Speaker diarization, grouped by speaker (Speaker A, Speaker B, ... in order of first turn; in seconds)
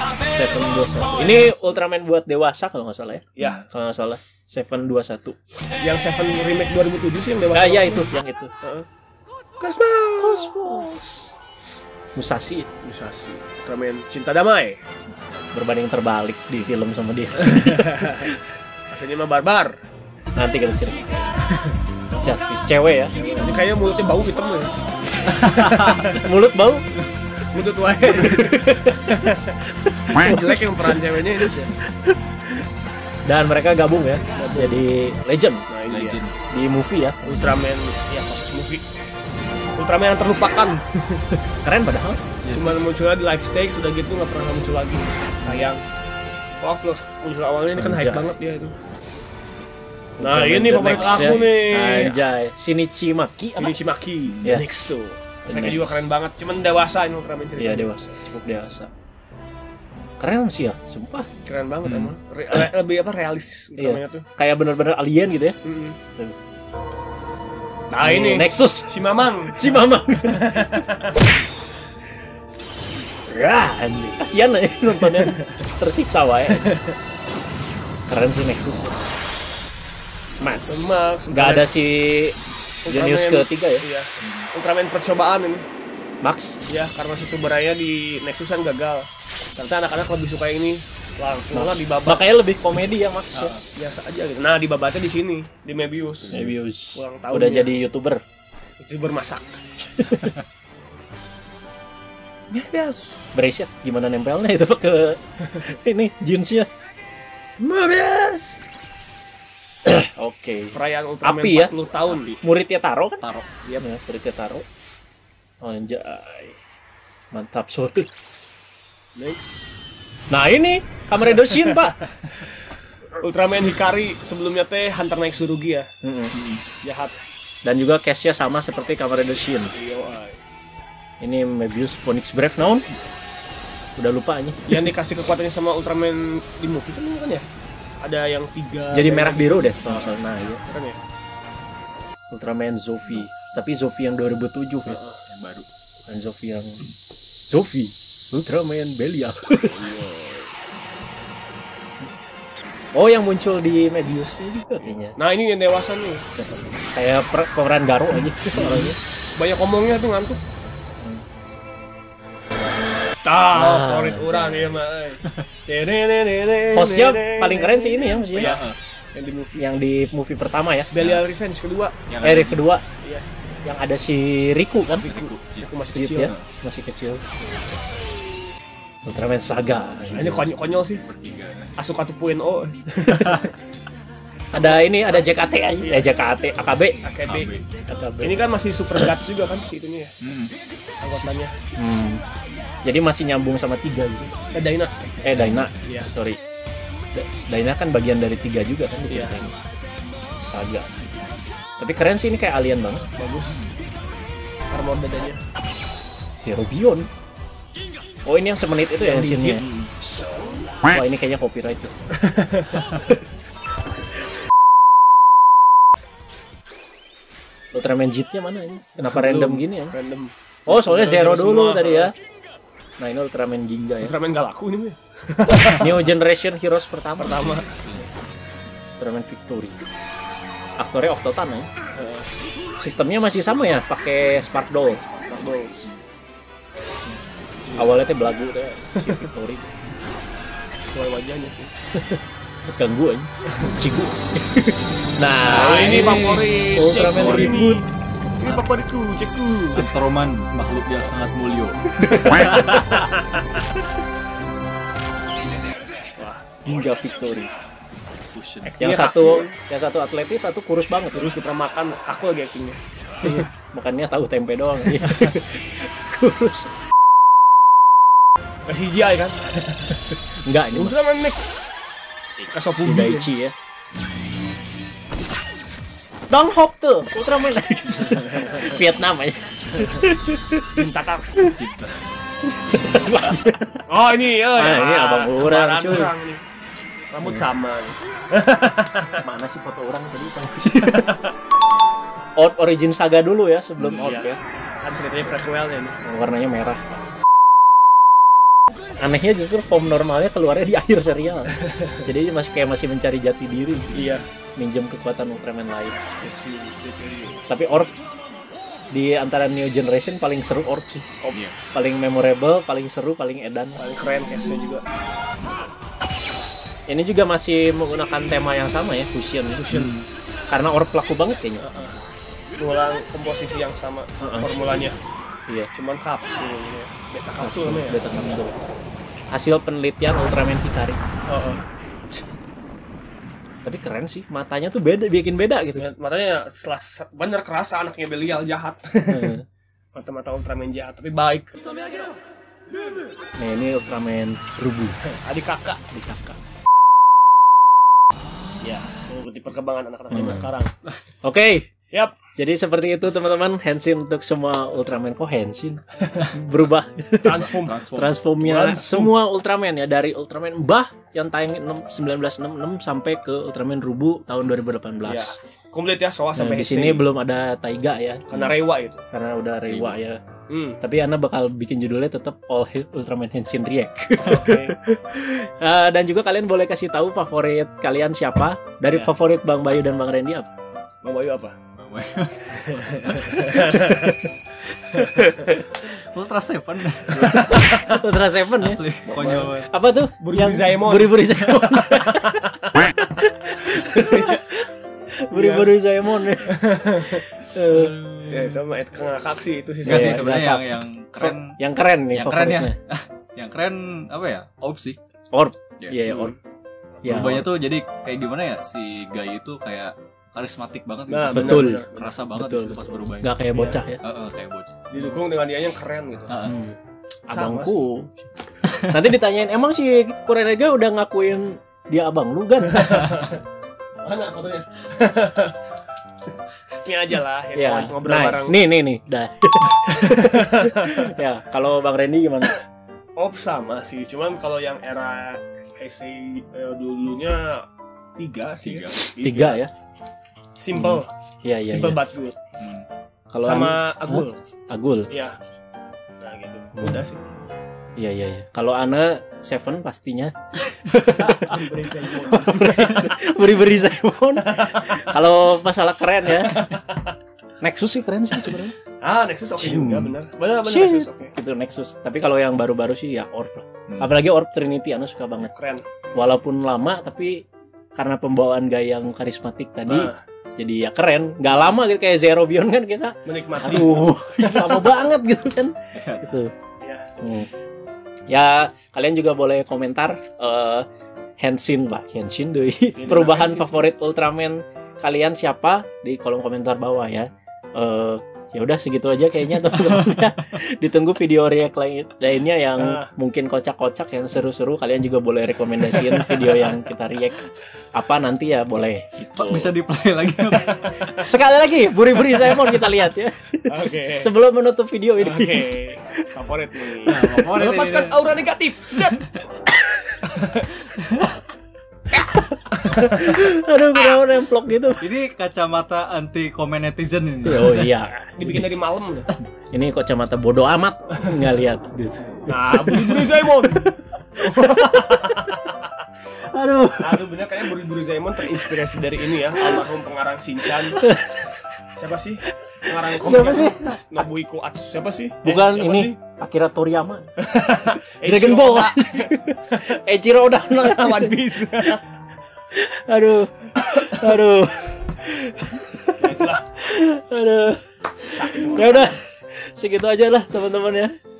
Speaker A: 0.2-5.4, 7.5-8.5, 10.2-11.3, 12.1-12.7, 15.5-18.4, 20.4-21.4, 22.2-23.6, 25.3-26.9, 28.1-29.0, 30.1-30.9, 31.8-32.2, 33.2-35.6, 36.5-37.5, 41.6-42.2, 47.8-48.3, 50.2-53.8, 55.5-56.1, 57.6-58.9, 60.2-61.3, 63.8-65.6, 68.0-68.9, 69.5-70.7, 73.3-76.7, 78.1-79.0, 80.4-83.8, 86.2-86.6, 91.5-93.5, 96.3-98.2, 100.0-100.3, 103.3-106.7, 107.6-108.7, 109.8-111.7, 112.4-113.2, 113.8-114.7, 115.6-116.6, 117.3-118.1, 120.3-122.0, 126.0-126.4, 127.6-129.7, 131.2-132.9, 133.9-134.9, 138.9-140.6, 142.3-145.0, 146.1-146.9, 147.4-149.8, 152.9-155.1, 156.3-159.0, 163.5-164.7, 166.7-168.6, 169.6-170.9, 172.2-172.8, 173.6-175.0, 175.9-177.2, 179.1-180.5, 184.5-187.0, 187.9-188.4, 191.1-192.2, 192.8-194.3, 195.2-196.4, 197.1-199.5, 200.4-200.9, 201.8-203.1, 206.4-207.1, 208.2-209.6, 210.8-211.9, 217.7-219.9, 220.7-222.1, 223.0-224.1, 225.7-227.7, 229.0-229.8, 230.8-231.7, 232.8-235.1, 237.8-239.7, 241.9-247.8, 256.6-257.5, 258.7-261.3, 263.2-266.7, 270.4-271.0, 272.4-273.5, 276.3-280.8, 282.6-283.8, 284.6-286.1, 289.2-291.1, 292.4-294.4, 296.0-297.1, 299.0-304.0, 304.6-306.0, 307.5-307.9, 308.9-313.8, 316.9-319.6, 320.5-321.6, 324.2-324.5, 327.4-328.5, 329.3-331.0, 333.6-335.8, 339.1-339.4, 343.4-345.0, 345.9-346.4, 350.1-350.5, 351.2-351.7, 352.3-365.3, 366.4-368.3, 369.1-370.2, 370.8-380.5, 383.5-384.3, 384.9-385.9, 387.4-388.8, 389.6-394.7, 395.3-396.7, 397.5-398.0, 399.8-402.8, 405.3-406.3, 407.0-407.5, 411.3-414.0, 416.4-416.8, 417.3-418.2, 418.7-423.1, 427.5-432.6, 439.2-439.7, 440.8-442.0, 443.3-445.1, 447.9-451.5, 452.2-456.7, 457.6-458.7, 459.6-460.1, 460.6-465.5, 466.1-476.5, 477.2-477.5, 478.3-480.9, 481.4-497.4, 497.9-499.7, 500.6-505.6, 506.9-507.4, 509.7-510.2, 512.1-515.1, 517.4-518.6, 519.7-525.6, 526.3-527.4, 530.7-531.7, 533.1-534.2, 535.4-537.3, 538.2-542.0, 542.7-551.1
Speaker B: 3.4-3.6, 5.8-8.1, 9.6-10.9, 12.8-14.8, 17.4-18.2, 18.9-19.7, 23.2-24.8, 25.3-26.2, 27.5-31.7, 34.3-34.8, 35.7-36.2, 37.2-39.0, 39.8-41.2, 42.5-45.8, 46.6-48.8, 50.2-52.4, 53.5-58.2, 61.4-64.2, 65.6-66.0, 67.9-71.1, 75.1-75.4, 76.5-76.9, 80.6-81.7, 82.8-85.7, 86.7-92.3, 93.7-96.4, 96.9-97.8, 98.8-99.6, 102.5-103.2, 110.7-112.3, 119.1-119.8, 121.3-122.6, 123.2-125.9, 126.8-127.2, 129.7-130.4, 134.7-137.4, 138.0-141.0, 144.8-145.2, 149.6-150.5, 154.9-156.2, 156.9-157.5, 158.5-160.4, 163.2-168.6, 169.1-169.7, 170.9-172.0, 174.9-176.3, 180.1-181.0, 181.8-183.5, 184.5-186.5, 187.0-187.5, 188.2-190.1, 191.0-191.6, 194.5-194.9, 195.8-196.1, 199.1-199.3, 203.2-203.6, 204.7-205.4, 209.0-209.6, 212.2-212.8, 219.0-222.1, 224.0-226.0, 231.9-232.3, 235.1-235.9, 237.6-238.0, 240.8-241.7, 245.4-247.8, 248.4-250.0, 252.1-253.6, 256.2-256.4, 258.8-259.5, 261.1-263.5, 268.7-270.0, 270.7-271.7, 272.5-273.3, 278.3-278.7, 280.7-281.4, 283.9-286.4, 287.1-289.2, 290.8-291.3, 293.8-294.3, 294.8-296.0, 301.6-302.0, 303.9-304.2, 306.0-307.4, 313.8-314.8, 319.5-320.0, 321.6-322.0, 322.6-325.0, 325.7-328.0, 331.3-331.6, 335.8-339.3, 339.9-341.9, 345.2-345.8, 348.6-350.7, 351.9-352.2, 357.2-359.1, 365.0-367.0, 368.3-369.0, 370.5-370.8, 374.2-374.8, 381.0-381.6, 382.5-384.1, 384.9-385.3, 387.1-388.0, 389.1-389.5, 390.2-392.8, 393.6-394.5, 395.3-395.7, 396.4-397.3, 398.3-400.3, 406.1-406.4, 411.1-412.2, 414.9-416.3, 417.3-417.9, 422.7-423.4, 424.0-425.6, 426.8-428.6, 429.9-431.1, 433.1-437.6, 438.2-439.6, 440.6-441.1, 441.6-442.4, 443.4-444.4, 445.1-445.4, 446.2-447.2, 451.1-453.2, 454.4-455.1, 456.4-457.1, 459.0-461.3, 465.5-465.8, 469.9-470.2, 473.2-474.1, 476.8-477.1, 482.9-483.9, 492.8-493.1, 503.7-504.3, 505.2-509.3, 510.2-510.9, 512.8-513.3, 518.4-519.3, 522.5-525.9, 527.0-531.0, 532.0-536.2, 537.4-540.0, 540.7-542.0, 546.2-546.6, 548.2-549.1
Speaker C: 35.9-36.4, 42.4-42.9, 50.8-51.6, 54.3-54.6, 61.8-62.1, 84.2-84.5, 93.3-93.6, 96.2-96.6, 112.1-112.4, 113.2-113.5, 126.3-126.6, 145.3-145.7, 168.3-168.8, 171.0-171.2, 172.1-172.7, 174.9-176.4, 181.0-181.7, 187.2-187.7, 190.2-190.5, 195.3-195.7, 203.5-203.7, 227.2-228.1, 235.3-236.0, 245.8-246.5, 247.1-247.7, 249.7-252.8, 258.3-258.8, 281.5-282.0, 311.3-311.6, 319.7-320.0, 328.1-328.4, 357.3-358.2, 369.7-370.0, 381.8-383.2, 385.9-387.5, 388.6-389.7, 397.7-398.6, 399.8-401.6, 402.1-405.0, 407.0-413.3, 414.0-414.8, 416.3-416.6, 438.6-439.1, 442.6-442.9, 474.4-474.9, 475.9-476.3, 489.8-490.2, 499.4-501.0, 507.1-508.2, 515.0-517.9